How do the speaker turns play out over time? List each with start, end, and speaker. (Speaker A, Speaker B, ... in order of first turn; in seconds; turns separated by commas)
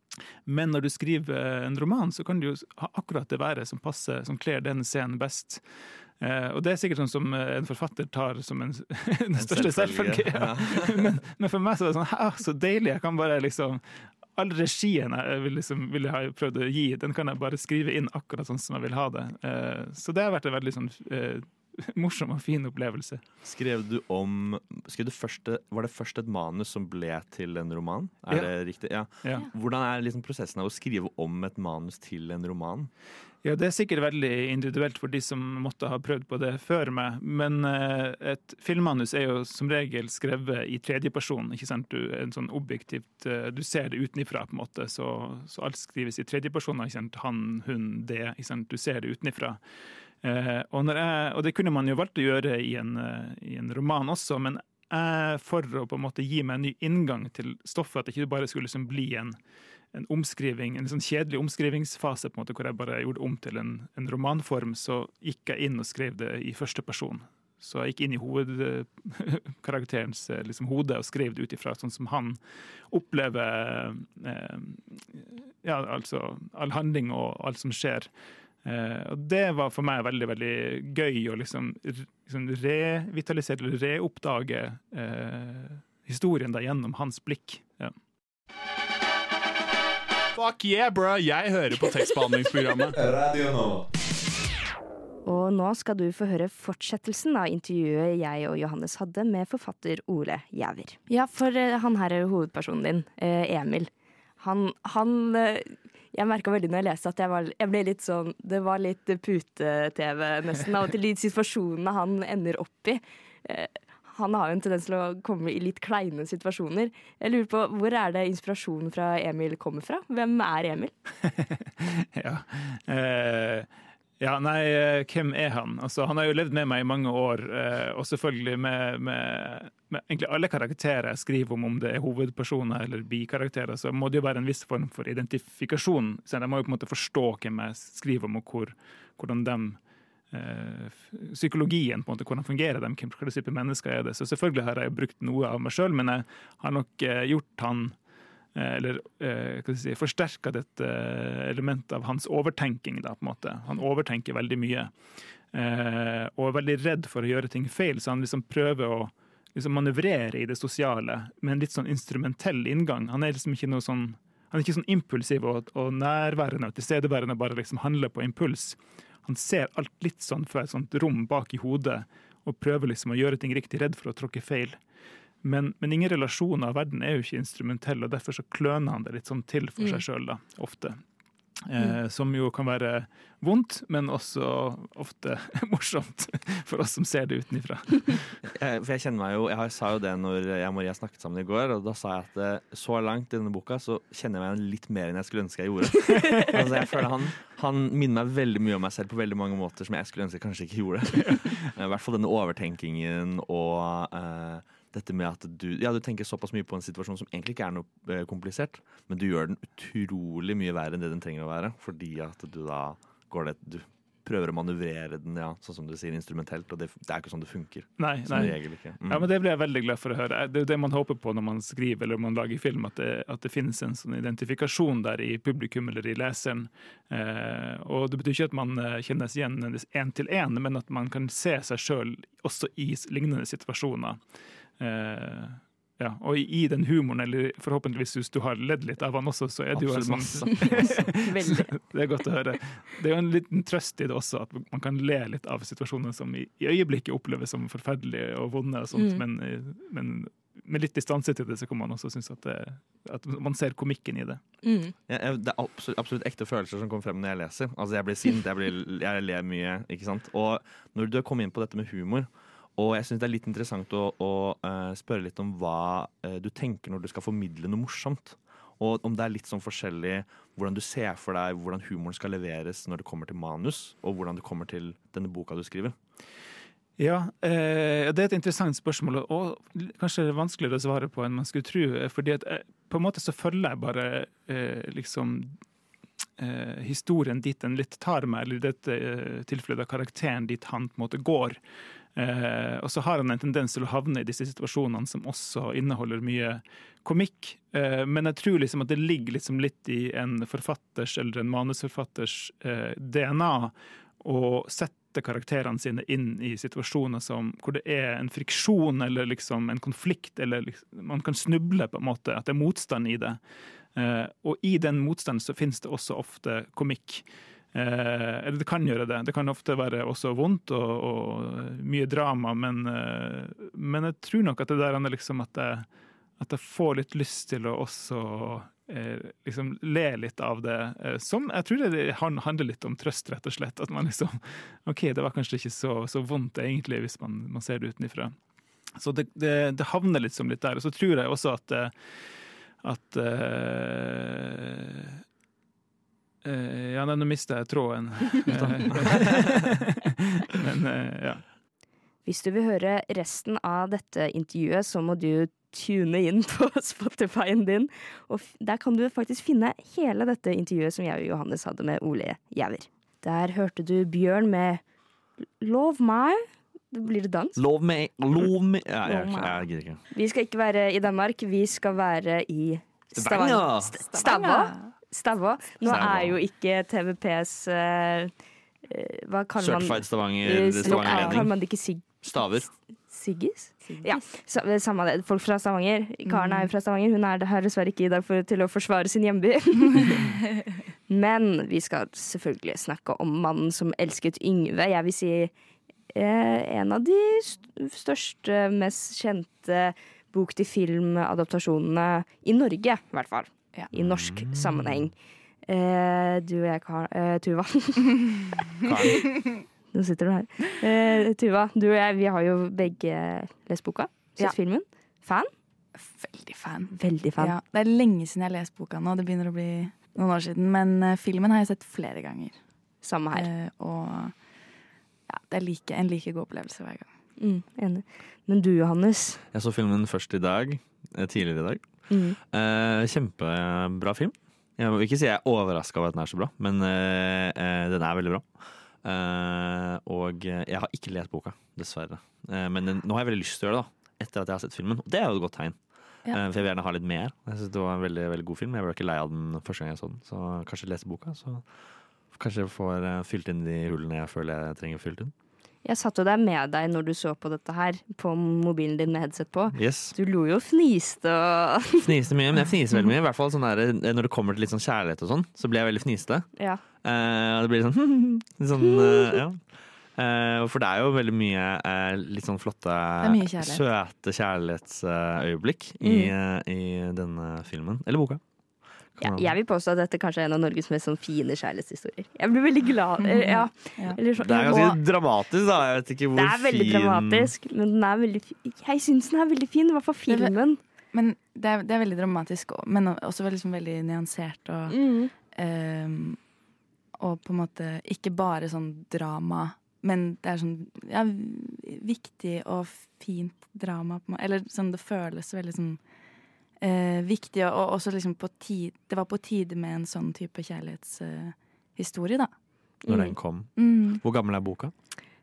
Speaker A: 0.5-23.2, Speaker B: 9.3-11.2, Speaker B: 23.4-32.9, Speaker A: 33.4-49.6, Speaker A: 50.2-59.4, Speaker A: 59.9-78.1, Speaker A: 78.6-87.9, Speaker C: 90.3-93.0, Speaker B: 93.0-93.8, Speaker D: 95.2-120.9, Speaker A: 121.7-123.7, Speaker A: 124.2-147.9, Speaker A: 148.6-154.9, Speaker A: 155.5-174.8, Speaker A: 175.4-181.0, Speaker A: 181.7-188.4, Speaker B: 188.5-219.3, Speaker A: 218.0-234.2, Speaker A: 234.8-254.4, Speaker B: 239.7-241.2, Speaker D: 241.2-241.7, Speaker D: 248.9-249.2, Speaker D: 254.6-254.9, Speaker B: 255.1-276.0, Speaker A: 277.0-285.5, Speaker A: 286.4-291.6, Speaker A: 292.2-313.4, Speaker A: 313.9-325.9, Speaker A: 326.4-338.4, Speaker A: 339.0-345.2, Speaker A: 346.4-351.4, Speaker B: 348.5-349.7, Speaker D: 352.2-364.8, Speaker D: 365.6-367.6, Speaker B: 367.6-370.0, Speaker D: 369.1-378.3, Speaker B: 373.2-373.9, Speaker E: 374.0-374.9, Speaker B: 375.8-376.4, Speaker D: 378.9-390.3, Speaker B: 379.6-382.7, Speaker E: 380.8-381.4, Speaker E: 383.9-384.2, Speaker E: 386.3-386.7, Speaker E: 390.0-390.3, Speaker D: 391.1-395.5, Speaker D: 396.1-408.4, Speaker B: 403.9-405.1, Speaker B: 408.8-409.3, Speaker D: 409.9-415.5, Speaker E: 416.0-422.6, Speaker D: 416.9-417.6, Speaker D: 423.0-423.5, Speaker E: 423.3-424.4, Speaker E: 425.3-427.1, Speaker D: 427.4-429.4, Speaker B: 429.5-438.5, Speaker D: 432.1-432.4, Speaker B: 439.0-451.7, Speaker B: 452.3-455.3, Speaker D: 455.8-462.1, Speaker B: 459.7-460.1, Speaker B: 462.0-466.5, Speaker D: 466.6-466.8, Speaker B: 467.0-478.4, Speaker D: 468.8-469.4, Speaker E: 473.2-473.8, Speaker D: 476.0-476.3, Speaker B: 479.2-479.5, Speaker D: 479.2-485.0, Speaker E: 483.2-484.2, Speaker B: 484.4-487.5, Speaker D: 486.3-490.8, Speaker E: 490.3-490.6, Speaker E: 491.1-496.4, Speaker D: 494.9-495.3, Speaker E: 497.2-506.0, Speaker E: 506.8-512.5, Speaker D: 513.0-513.4, Speaker B: 513.1-514.9, Speaker E: 513.8-514.2